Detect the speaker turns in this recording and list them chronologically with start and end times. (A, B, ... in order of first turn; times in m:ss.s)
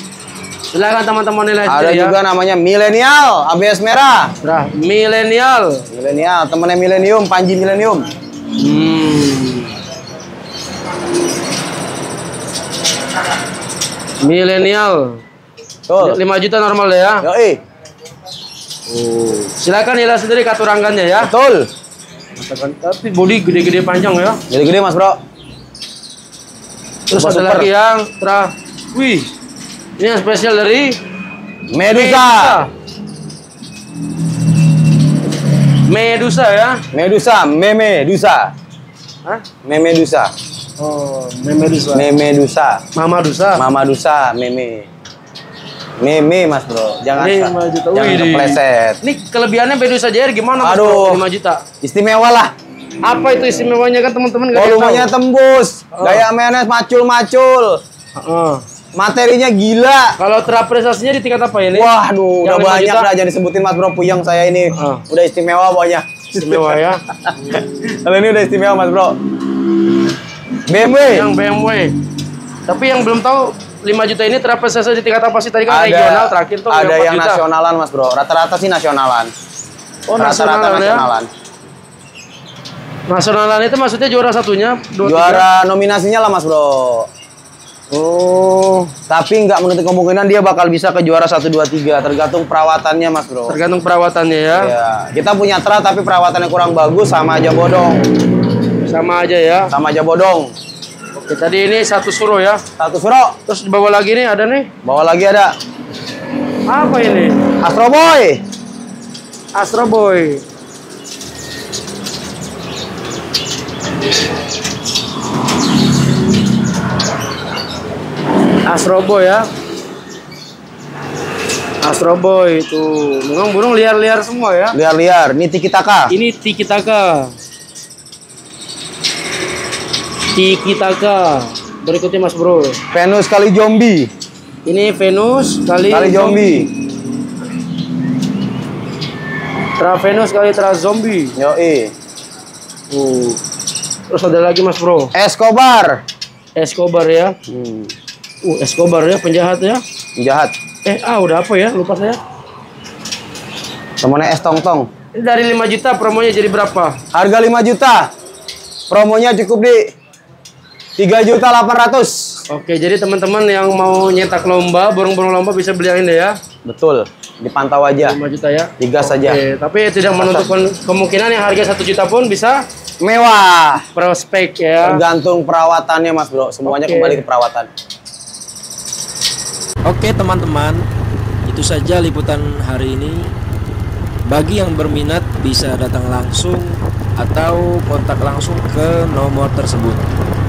0:00.7-0:02.2 A
0:01.7-0:04.3 B
0:04.4-0:05.9 A
0:05.9-0:08.1 B
0:08.6-0:09.7 A
0:14.2-0:15.2 A
0:15.9-0:16.2 B
0:16.0-0:17.2 A
0:17.2-0:17.6 B
0:19.0-0:21.3 A
0:21.2-0:21.7 B
0:22.4-0:24.4 A
0:24.5-0:25.2 B
0:27.1-0:29.3 A
0:27.2-0:27.7 B
0:30.0-0:31.0 A
0:31.7-0:32.6 B
0:31.9-0:32.7 A
0:35.9-0:36.8 A
0:36.9-0:38.5 B
0:39.6-0:40.3 B
0:40.8-0:42.1 A
0:41.9-0:42.8 B
0:43.0-0:43.6 A
0:43.6-0:44.9 B
0:46.0-0:49.0 B
0:47.2-0:51.6 A
0:50.6-0:51.2 B
0:51.8-0:52.5 B
0:53.0-0:55.1 A
0:54.5-0:57.8 B
0:55.9-0:56.2 A
0:58.2-0:58.6 A
0:59.0-1:00.2 B
1:00.2-1:01.9 A
1:01.7-1:09.2 B
1:02.4-1:03.1 A
1:04.7-1:05.0 A
1:06.4-1:07.0 A
1:10.7-1:11.3 B
1:11.0-1:12.0 A
1:12.7-1:17.4 A
1:15.7-1:19.3 B
1:20.1-1:21.1 A
1:20.2-1:21.3 B
1:23.1-1:25.4 A
1:25.0-1:27.1 B
1:27.9-1:28.9 A
1:29.1-1:33.6 B
1:33.5-1:34.7 A
1:34.5-1:38.1 B
1:38.8-1:39.7 A
1:39.7-1:40.5 B
1:41.2-1:42.6 A
1:42.8-1:43.4 B
1:43.5-1:44.7 A
1:44.8-1:45.6 B
1:46.7-1:47.4 A
1:47.6-1:48.4 B
1:49.6-1:50.4 A
1:58.7-1:59.5 A
2:01.8-2:04.8 A
2:04.7-2:06.1 B
2:06.1-2:07.3 A
2:10.3-2:12.8 A
2:12.9-2:14.1 B
2:14.7-2:16.5 A
2:15.9-2:16.7 B
2:19.8-2:21.4 A
2:21.4-2:21.9 B
2:22.9-2:23.4 A
2:24.1-2:25.1 A
2:25.1-2:26.0 B
2:26.6-2:27.4 A
2:27.5-2:27.9 B
2:28.4-2:29.8 A
2:30.2-2:30.5 B
2:30.8-2:32.2 A
2:34.0-2:34.9 B
2:35.1-2:37.0 A
2:37.1-2:38.1 B
2:38.9-2:39.9 B
2:41.0-2:42.4 B
2:42.5-2:46.4 A
2:46.6-2:48.2 B
2:48.0-2:52.6 A
2:48.8-2:49.4 B
2:50.2-2:50.5 B
2:53.0-2:53.8 B
2:54.0-2:55.0 A
2:54.8-2:57.7 B
2:56.7-2:57.2 A
2:59.9-3:00.8 C
3:01.5-3:03.3 C
3:04.3-3:10.1 C